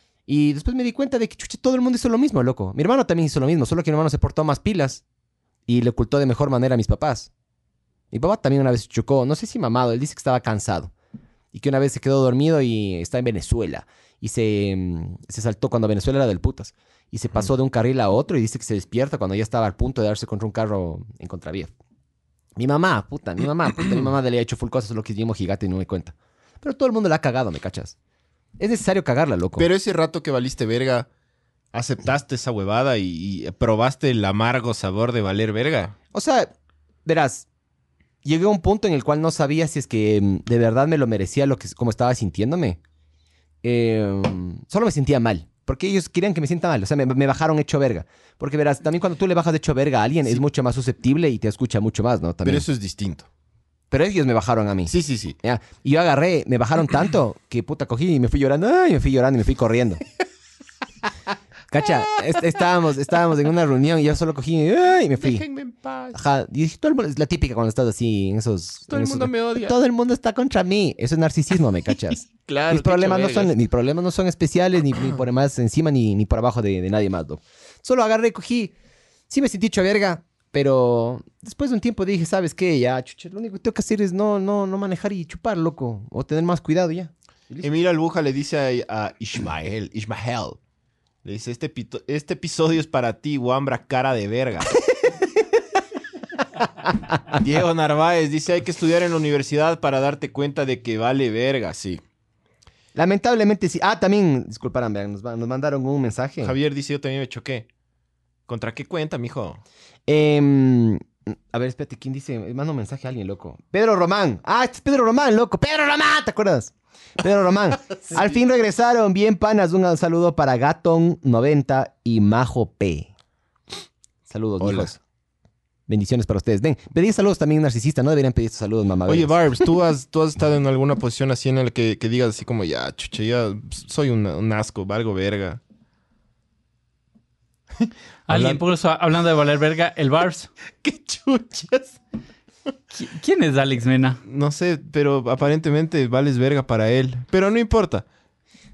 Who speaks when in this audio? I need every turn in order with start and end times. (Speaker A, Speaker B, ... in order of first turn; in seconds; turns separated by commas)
Speaker A: 0.3-5.0, Speaker A: 5.7-7.3, Speaker A: 8.1-10.9, Speaker A: 11.5-21.7, Speaker A: 22.6-27.9, Speaker A: 28.6-29.7, Speaker B: 29.6-31.1, Speaker B: 31.7-36.0, Speaker A: 36.1-36.5, Speaker A: 37.0-37.5, Speaker A: 38.2-42.8, Speaker A: 43.6-52.6, Speaker B: 52.4-53.3, Speaker A: 53.9-60.0, Speaker B: 54.9-55.4, Speaker A: 61.7-65.4, Speaker B: 65.2-66.2, Speaker A: 66.1-78.7, Speaker B: 68.9-69.8, Speaker B: 72.4-73.5, Speaker A: 79.3-87.7, Speaker B: 87.6-90.6, Speaker B: 91.2-94.8, Speaker B: 97.2-102.0, Speaker A: 102.9-106.5, Speaker B: 106.4-107.7, Speaker B: 108.5-109.6, Speaker A: 110.1-123.1, Speaker A: 124.3-125.0, Speaker B: 124.6-124.9, Speaker A: 125.9-129.7, Speaker B: 129.1-135.6, Speaker B: 137.8-138.6, Speaker C: 138.3-140.5, Speaker B: 140.8-141.9, Speaker C: 142.9-144.2, Speaker B: 144.2-148.0